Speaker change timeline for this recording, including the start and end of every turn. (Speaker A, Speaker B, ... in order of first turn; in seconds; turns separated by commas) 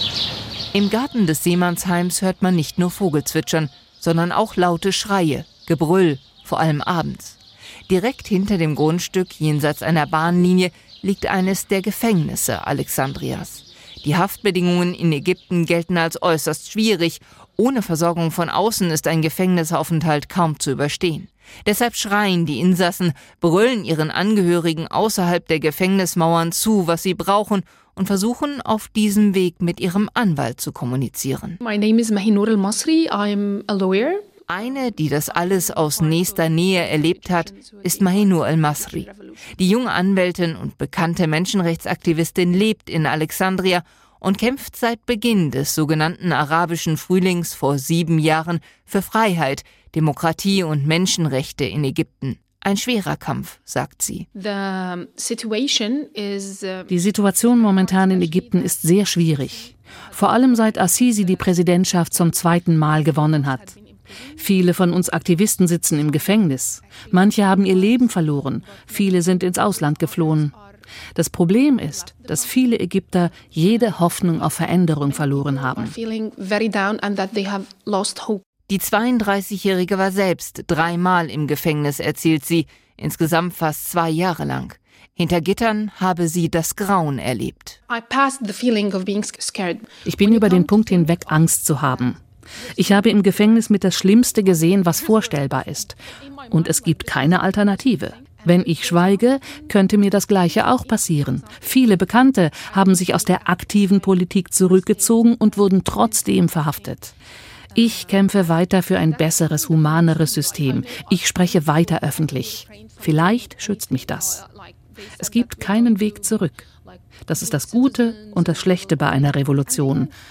Speaker A: 0.7-7.4, Speaker A: 7.9-31.6, Speaker B: 31.6-34.3, Speaker A: 34.5-54.3, Speaker B: 34.8-39.6, Speaker B: 54.3-64.7, Speaker C: 56.9-63.7, Speaker C: 64.4-70.5, Speaker B: 65.9-70.8, Speaker C: 71.1-75.9, Speaker B: 71.8-78.4, Speaker A: 78.7-87.8, Speaker B: 87.9-93.7, Speaker C: 90.0-92.2, Speaker C: 92.7-107.1, Speaker B: 94.3-107.1, Speaker B: 107.7-120.1, Speaker C: 107.7-114.4, Speaker C: 115.2-116.7, Speaker C: 117.2-120.1